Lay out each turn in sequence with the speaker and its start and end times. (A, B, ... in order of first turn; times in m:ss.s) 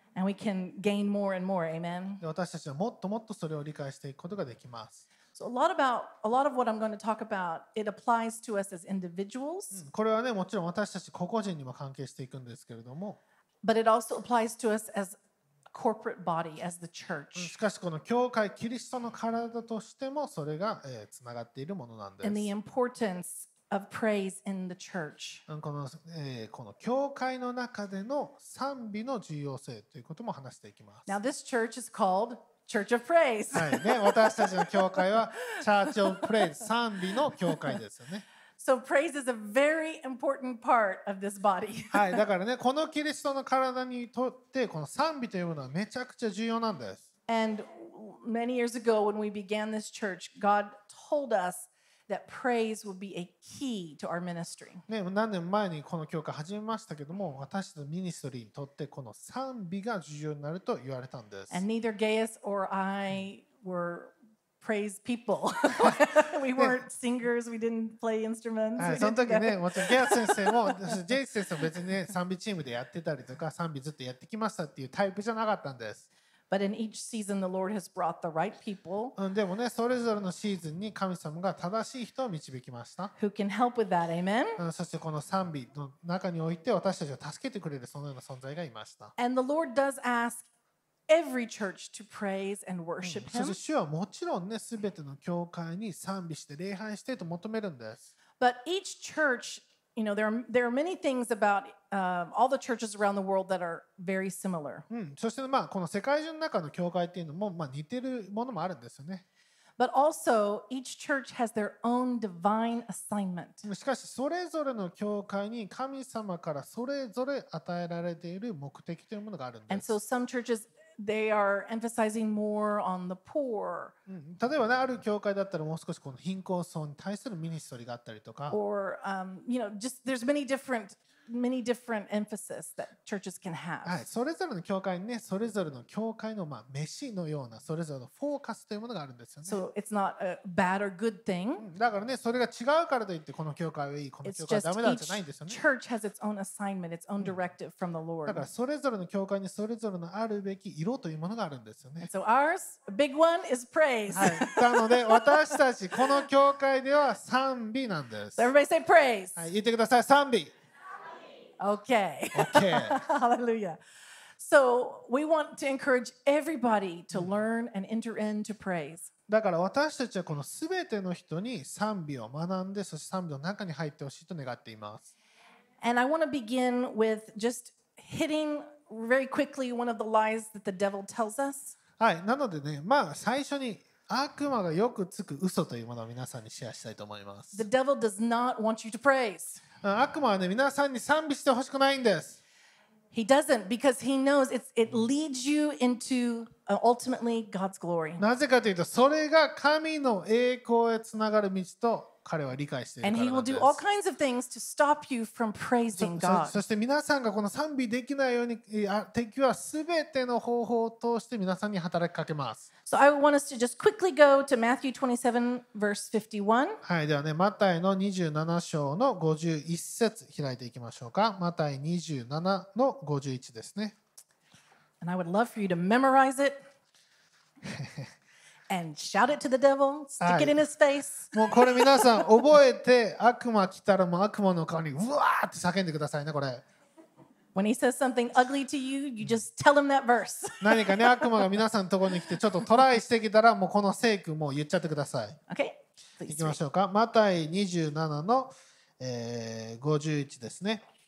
0:00.2-0:02.2 A
0:02.2-0:05.0 B
0:05.3-0:09.8 A
0:09.7-0:13.2 B
0:13.6-0:15.2 A
0:15.7-0:17.5 A
0:17.4-0:22.5 B
0:22.2-0:25.4 A
0:25.5-0:31.2 B
0:31.1-0:36.3 A
0:33.6-0:38.3 B
0:37.2-0:37.7 A
0:38.6-0:42.2 A
0:41.9-0:47.0 B
0:47.3-0:54.8 A
0:54.9-1:01.6 B
1:01.5-1:11.0 A
1:08.8-1:16.1 B
1:16.5-1:19.2 A
1:19.2-1:23.1 B
1:23.2-1:24.6 A
1:24.6-1:29.1 B
1:29.2-1:30.5 A
1:31.1-1:33.6 A
1:33.0-1:38.1 B
1:38.4-1:44.9 A
1:44.9-1:49.2 B
1:49.8-1:53.6 A
1:53.6-1:59.9 B
1:59.7-2:03.9 A
2:04.1-2:08.6 B
2:08.5-2:14.0 A
2:13.8-2:19.6 B
2:19.5-2:21.6 A
2:21.6-2:25.6 B
2:24.2-2:28.5 A
2:28.3-2:32.1 B
2:32.0-2:36.1 A
2:34.1-2:38.5 B
2:38.4-2:39.5 A
2:39.4-2:40.5 B
2:41.6-2:43.8 A
2:42.4-2:43.0 B
2:44.4-2:49.1 A
2:49.3-2:55.1 B
2:55.8-3:01.8 A
3:02.0-3:07.6 B
3:07.5-3:09.6 A
3:09.8-3:12.4 B
3:13.1-3:18.2 A
3:18.2-3:23.8 B
3:23.0-3:26.6 A
3:26.0-3:32.7 B
3:32.9-3:36.8 A
3:36.8-3:44.0 B
3:45.0-3:46.6 A
3:47.6-3:48.1 B
3:48.7-3:52.5 A
3:50.2-3:50.6 B
3:51.3-3:56.6 B
3:57.6-4:01.5 A
4:00.6-4:05.4 B
4:05.5-4:06.6 A
4:06.3-4:10.8 B